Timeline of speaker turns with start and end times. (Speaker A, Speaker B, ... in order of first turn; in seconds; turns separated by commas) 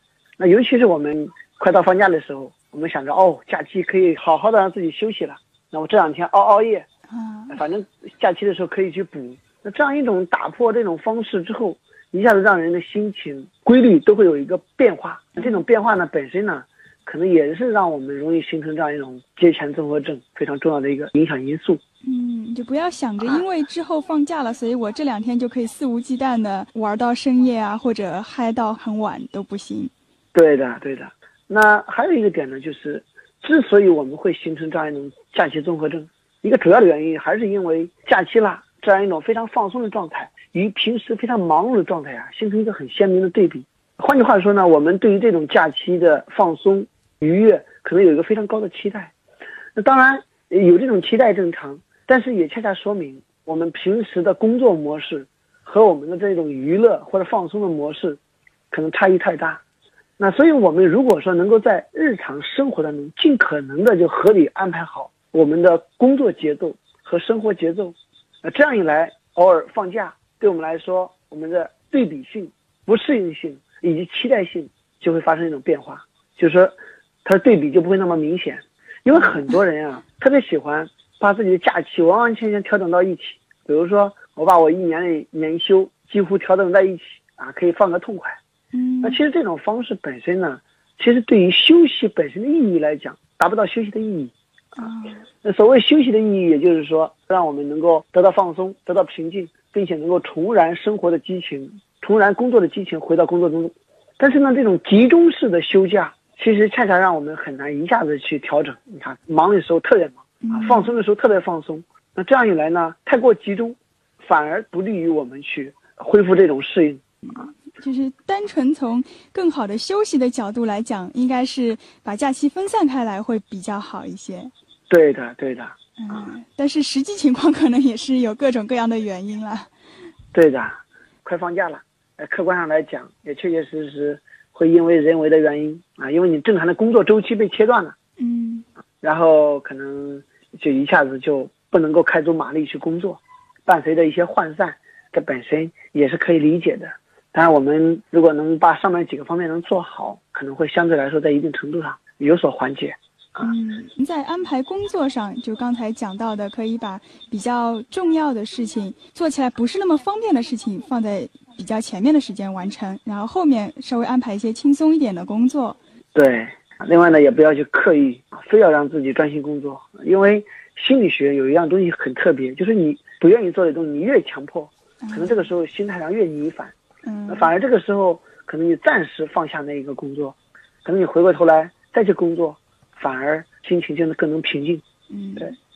Speaker A: 0.4-6.8, Speaker B: 7.1-7.6, Speaker A: 7.5-21.8, Speaker B: 15.3-15.6, Speaker B: 22.0-29.9, Speaker A: 30.3-49.1, Speaker A: 49.8-58.2, Speaker A: 58.7-59.6, Speaker A: 60.2-88.4, Speaker B: 88.7-89.2, Speaker A: 89.0-94.9, Speaker B: 94.8-95.2, Speaker A: 95.4-117.0, Speaker B: 110.4-110.9, Speaker B: 117.2-124.5, Speaker A: 124.9-125.7, Speaker B: 126.0-129.7, Speaker A: 130.3-137.9, Speaker B: 138.2-138.7, Speaker A: 139.0-153.5, Speaker B: 153.4-165.8, Speaker A: 166.1-176.8, Speaker B: 175.0-175.5, Speaker B: 177.0-177.6, Speaker A: 177.3-184.8, Speaker B: 185.1-185.6